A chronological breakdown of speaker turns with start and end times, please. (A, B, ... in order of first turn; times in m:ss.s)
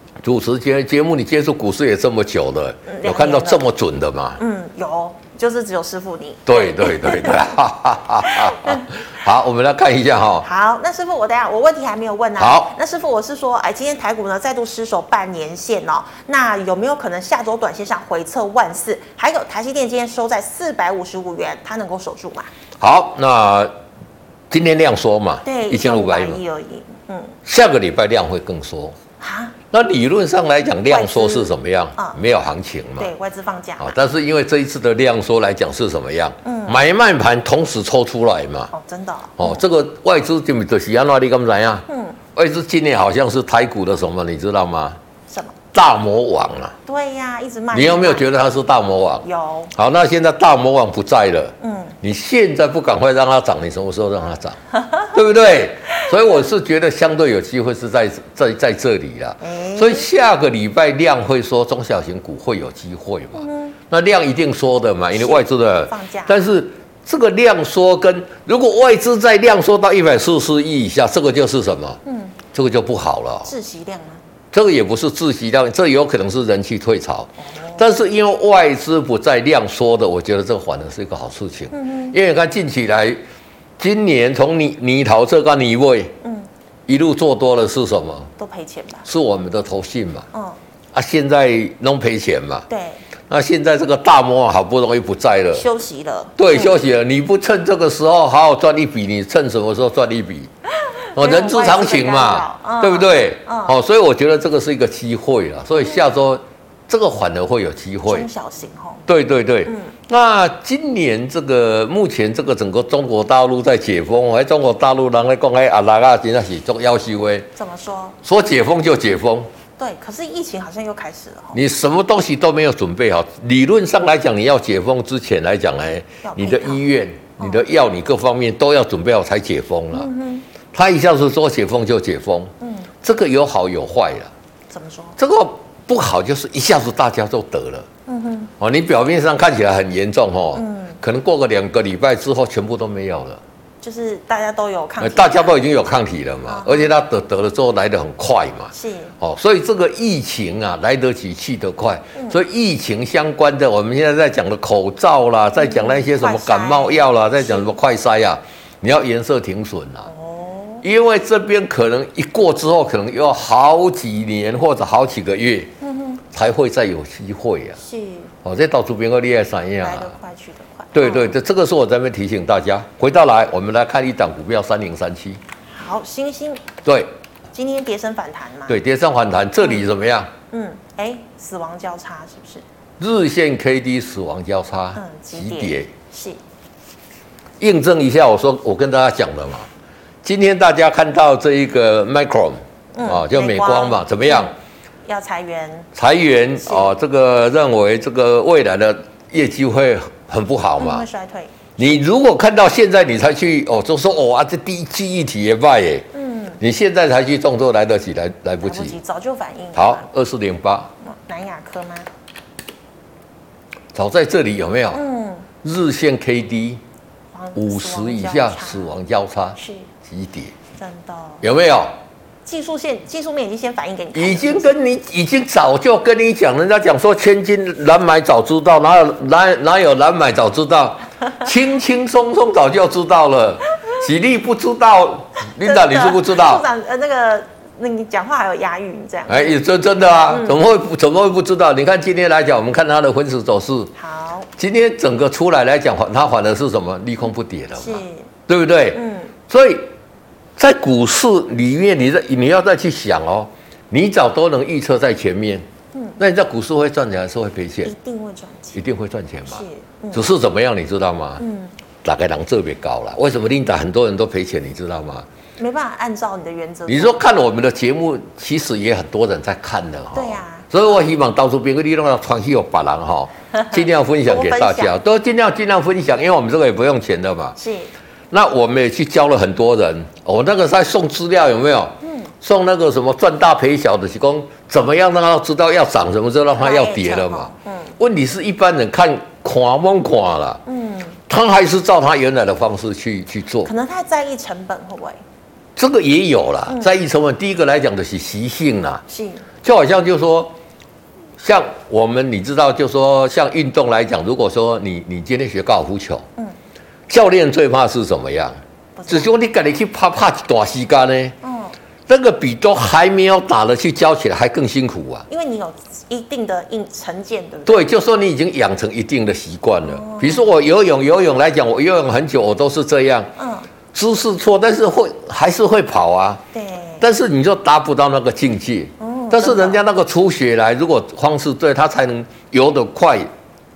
0:00.2-0:04.4 A
0:02.9-0:03.7 B
0:04.4-0:07.5 B
0:06.5-0:10.5 A
0:08.2-0:08.9 B
0:10.4-0:22.5 B
0:12.4-0:12.7 A
0:22.8-0:23.7 A
0:24.5-0:26.4 A
0:25.4-0:27.4 B
0:27.4-0:29.0 A
0:29.2-0:29.6 B
0:29.7-0:33.1 A
0:30.9-0:32.2 B
0:33.0-0:34.0 B
0:33.8-0:38.7 A
0:36.4-0:36.8 B
0:38.7-0:39.6 B
0:39.4-0:45.0 A
0:41.9-0:42.2 B
0:45.3-0:45.6 B
0:45.7-0:46.8 A
0:46.9-0:48.3 B
0:47.7-0:54.6 A
0:49.2-0:49.7 B
0:51.6-0:52.0 B
0:55.1-1:12.0 A
0:59.4-1:00.1 B
1:03.4-1:03.8 B
1:05.1-1:06.5 B
1:12.0-1:12.4 B
1:12.5-1:13.5 A
1:13.4-1:14.2 B
1:14.5-1:23.2 A
1:17.4-1:18.0 B
1:21.7-1:22.2 B
1:23.8-1:26.1 A
1:26.2-1:26.5 B
1:26.9-1:28.3 A
1:28.4-1:29.1 B
1:29.0-1:30.3 A
1:30.3-1:30.6 B
1:30.9-1:32.7 A
1:32.7-1:33.0 B
1:33.3-1:35.7 A
1:35.5-1:36.8 B
1:36.4-1:40.5 A
1:41.0-1:43.8 B
1:41.2-1:48.3 A
1:45.8-1:46.1 B
1:48.1-1:49.0 B
1:49.1-1:57.5 A
1:49.7-1:50.0 B
1:57.6-1:58.2 B
1:58.2-1:59.5 A
1:59.8-2:01.6 B
2:01.5-2:10.1 A
2:06.2-2:06.8 B
2:09.9-2:10.5 B
2:10.7-2:14.3 A
2:12.6-2:12.9 B
2:14.7-2:15.2 B
2:15.2-2:17.9 A
2:18.1-2:18.5 B
2:18.6-2:23.4 A
2:20.6-2:21.0 B
2:23.8-2:25.6 B
2:25.0-2:40.1 A
2:26.5-2:26.9 B
2:28.7-2:29.2 B
2:32.2-2:32.4 B
2:35.6-2:37.8 B
2:40.1-2:40.8 B
2:40.8-2:45.7 A
2:45.8-2:46.2 B
2:46.3-2:47.8 A
2:47.8-2:48.3 B
2:48.4-2:50.2 A
2:49.8-2:51.4 B
2:50.9-2:55.4 A
2:55.7-2:56.7 B
2:56.8-2:57.1 A
2:57.6-2:58.8 B
2:58.7-3:00.3 A
3:00.5-3:02.6 B
3:03.0-3:05.9 A
3:05.0-3:06.4 B
3:07.6-3:09.7 A
3:10.2-3:14.5 A
3:13.0-3:14.6 B
3:15.1-3:15.9 B
3:16.0-3:21.1 A
3:16.6-3:16.9 B
3:20.8-3:21.5 B
3:21.8-3:26.1 A
3:26.1-3:26.6 B
3:26.6-3:29.0 A
3:28.6-3:30.1 B
3:29.8-3:30.9 A
3:31.0-3:32.1 B
3:33.9-3:35.0 A
3:34.9-3:35.5 B
3:35.6-3:36.8 A
3:37.3-3:38.9 B
3:37.6-3:40.5 A
3:39.6-3:39.9 B
3:40.8-3:41.4 B
3:41.4-3:42.0 A
3:42.5-3:44.8 B
3:44.1-3:56.6 A
3:55.6-4:00.6 B
3:59.3-4:03.9 A
4:04.0-4:04.5 B
4:04.6-4:09.9 A
4:07.8-4:08.3 B
4:08.9-4:09.3 B
4:10.6-4:15.7 A
4:15.9-4:16.2 B
4:16.2-4:17.9 A
4:17.8-4:18.8 B
4:18.8-4:21.4 A
4:19.5-4:20.3 B
4:21.4-4:21.7 B
4:22.0-4:25.3 A
4:25.6-4:27.2 B
4:26.9-4:37.6 A
4:30.1-4:30.7 B
4:33.5-4:35.0 B
4:37.6-4:37.9 B
4:38.3-4:50.6 A
4:42.0-4:42.3 B
4:46.6-4:48.0 B
4:50.7-4:51.2 B
4:51.3-4:53.7 A
4:53.6-4:55.2 B
4:55.8-4:59.0 A
4:59.1-4:59.5 B
4:59.6-5:00.5 A
5:01.4-5:06.3 A
5:07.1-5:08.6 A
5:09.0-5:09.3 B
5:09.1-5:11.4 A
5:11.4-5:11.8 B
5:12.1-5:15.3 A
5:15.3-5:17.9 B
5:17.7-5:23.3 A
5:19.9-5:20.5 B
5:23.4-5:23.7 B
5:23.9-5:26.4 A
5:26.5-5:27.0 B
5:27.0-5:33.3 A
5:29.0-5:29.8 B